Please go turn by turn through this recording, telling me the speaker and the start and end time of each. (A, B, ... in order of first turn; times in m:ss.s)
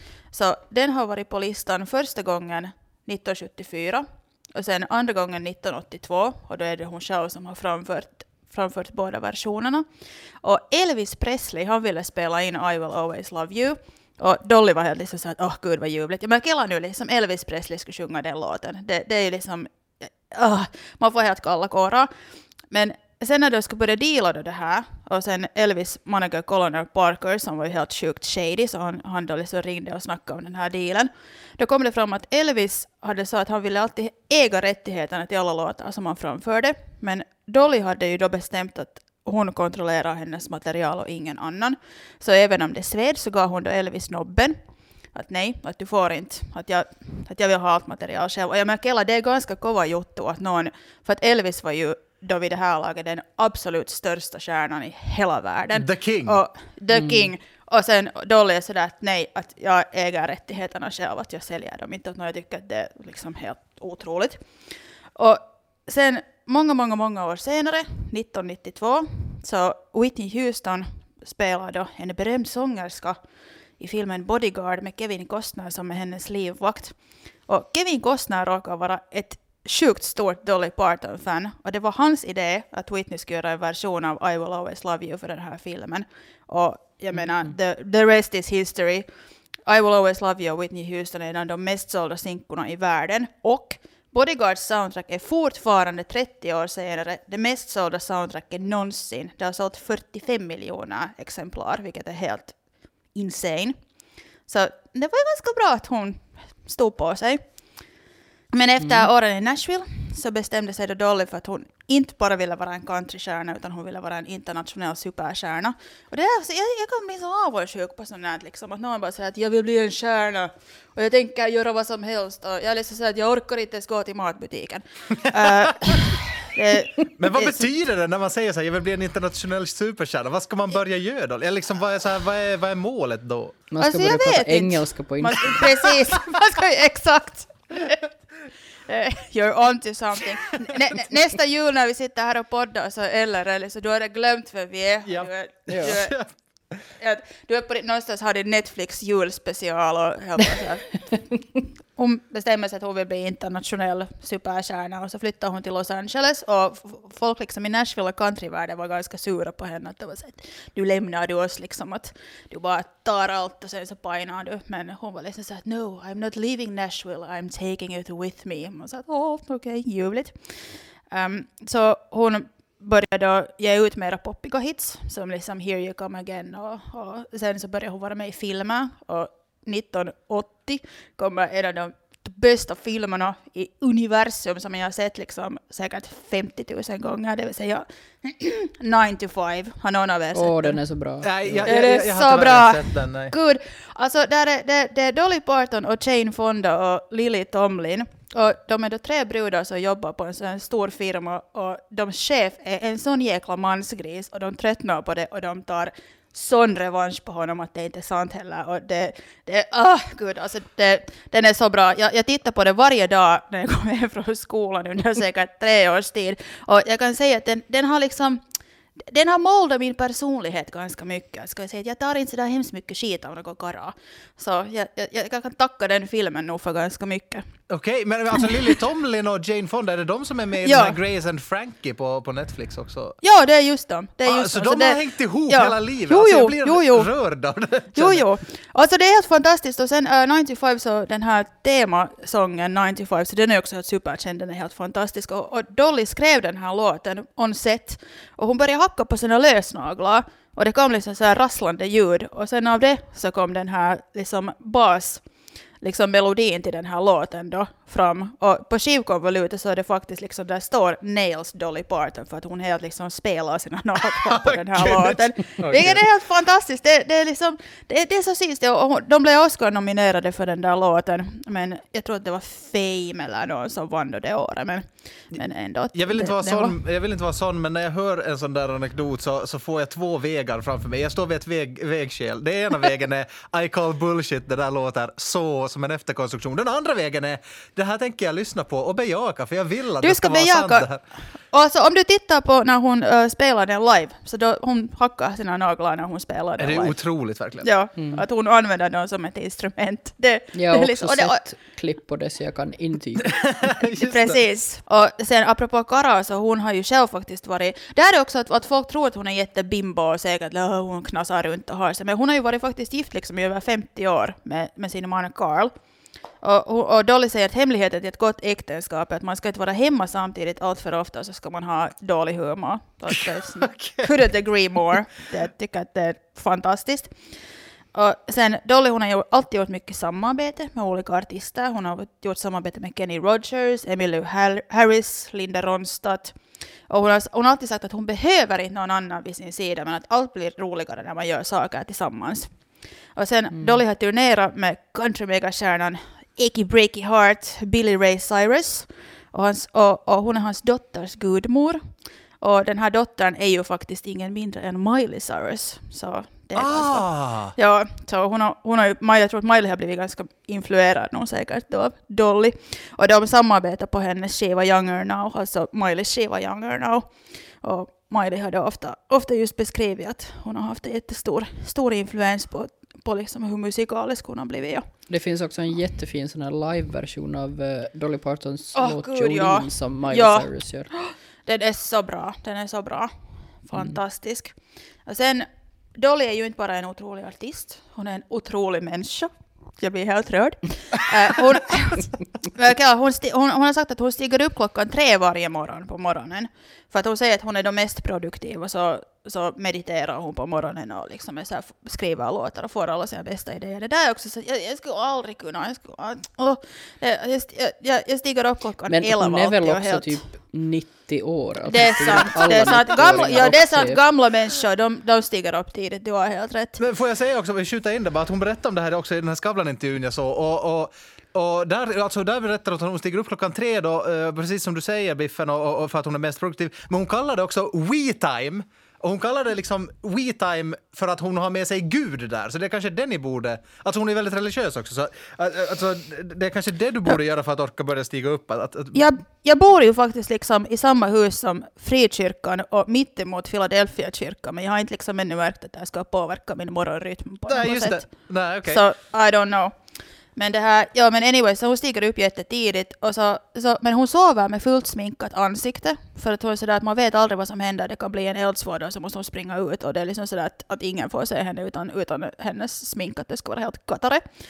0:00.3-0:09.9 A
0:10.4-0:22.1 A
0:22.7-0:44.6 A
0:45.1-1:04.4 A
0:55.8-0:56.4 B
0:56.9-0:57.3 C
1:05.2-1:13.2 A
1:13.8-1:17.0 A
1:17.5-1:29.1 A
1:29.6-1:42.6 A
1:43.1-1:43.8 A
1:44.5-1:47.4 A
1:48.5-2:07.6 A
1:48.8-1:49.1 C
2:05.2-2:05.9 B
2:07.2-2:13.6 B
2:13.7-2:15.7 C
2:13.8-2:18.1 A
2:18.9-2:26.2 A
2:25.1-2:26.3 B
2:25.7-2:26.0 C
2:27.0-2:31.2 A
2:32.0-3:10.8 A
3:10.3-3:11.9 C
3:11.2-3:13.3 B
3:11.7-3:38.4 A
3:39.0-3:47.4 A
3:47.7-3:53.2 B
3:50.6-3:51.0 A
3:53.2-3:57.1 A
3:54.3-3:58.2 B
3:57.9-4:15.2 A
4:15.8-4:36.8 A
4:24.2-4:26.0 B
4:35.9-4:51.0 B
4:50.0-4:50.9 A
4:51.5-4:57.0 A
4:56.6-4:57.7 B
4:57.6-5:01.4 A
4:58.0-4:58.2 C
5:00.5-5:03.5 C
5:03.4-5:04.4 B
5:04.0-5:15.7 A
5:16.4-5:27.2 A
5:23.1-5:24.1 B
5:27.9-5:42.6 A
5:43.2-5:51.8 A
5:43.5-5:43.8 C
5:52.4-6:14.8 A
5:56.6-5:57.5 B
6:15.1-6:20.9 C
6:18.8-6:23.1 A
6:23.6-6:24.6 A
6:25.1-6:50.2 A
6:48.9-6:54.0 C
6:51.7-6:56.8 A
6:56.8-7:19.1 B
7:18.9-7:28.1 A
7:27.5-7:28.8 B
7:28.7-7:29.7 A
7:30.4-7:44.2 A